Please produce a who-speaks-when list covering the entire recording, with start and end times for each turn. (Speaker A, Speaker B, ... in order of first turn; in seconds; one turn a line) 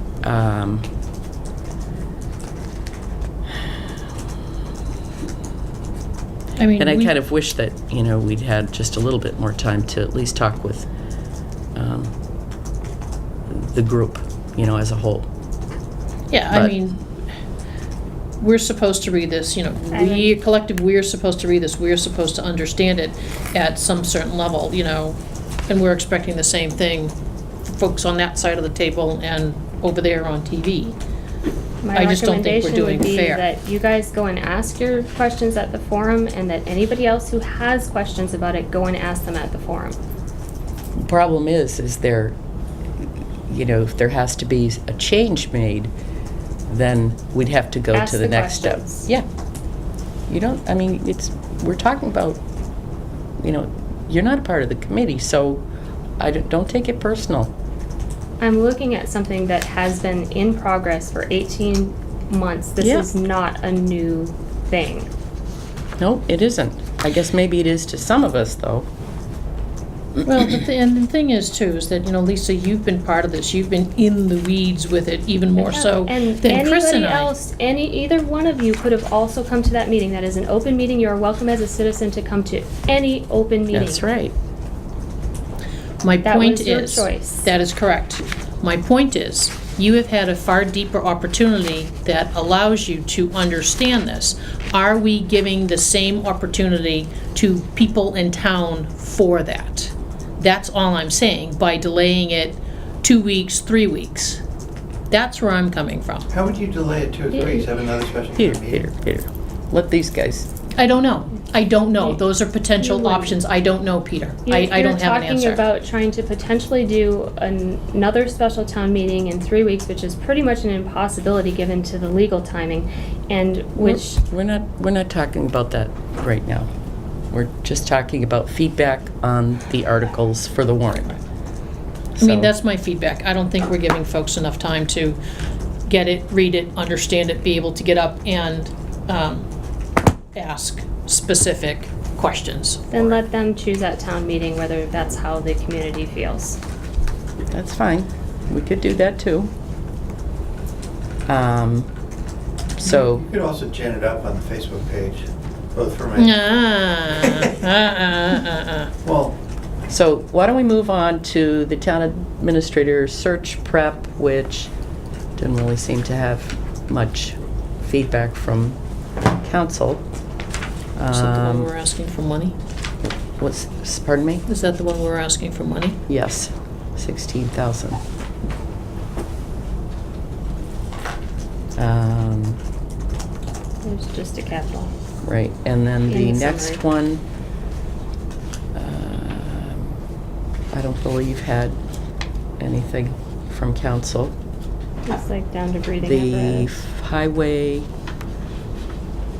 Speaker A: 0.2-0.9
Speaker B: 6.6-7.1
Speaker A: 6.8-10.9
Speaker A: 11.8-12.1
Speaker A: 13.5-15.3
Speaker B: 16.3-17.0
Speaker B: 18.4-27.1
Speaker C: 19.9-20.3
Speaker B: 27.7-31.0
Speaker C: 31.8-40.0
Speaker B: 31.9-33.5
Speaker A: 41.0-42.4
Speaker A: 43.5-45.9
Speaker A: 46.7-49.2
Speaker C: 47.9-49.1
Speaker A: 50.3-52.4
Speaker A: 53.4-55.6
Speaker A: 56.2-57.5
Speaker C: 58.4-65.1
Speaker A: 62.8-63.1
Speaker A: 66.0-68.9
Speaker B: 70.2-77.3
Speaker C: 75.6-84.0
Speaker A: 83.7-84.3
Speaker B: 86.0-104.4
Speaker C: 86.2-87.5
Speaker B: 105.1-106.3
Speaker D: 106.3-108.9
Speaker C: 107.3-107.7
Speaker A: 108.3-110.5
Speaker B: 110.8-115.6
Speaker C: 112.8-113.4
Speaker C: 114.5-124.2
Speaker A: 123.8-126.7
Speaker A: 127.3-131.2
Speaker B: 132.2-135.2
Speaker A: 132.2-132.5
Speaker B: 135.9-139.5
Speaker B: 140.3-143.2
Speaker C: 142.9-146.6
Speaker A: 147.5-149.5
Speaker A: 151.3-151.9
Speaker A: 152.8-153.3
Speaker D: 153.0-156.4
Speaker B: 156.2-158.9
Speaker D: 159.0-159.4
Speaker A: 159.9-164.7
Speaker A: 165.4-170.0
Speaker A: 171.0-171.7
Speaker B: 171.1-172.6
Speaker A: 173.4-174.4
Speaker B: 174.5-176.0
Speaker A: 176.1-178.0
Speaker A: 181.8-182.6
Speaker C: 183.8-184.9
Speaker A: 185.2-187.2
Speaker C: 186.1-186.8
Speaker A: 188.8-190.0
Speaker A: 190.7-191.8
Speaker A: 192.6-194.3
Speaker C: 195.1-196.7
Speaker A: 196.0-197.9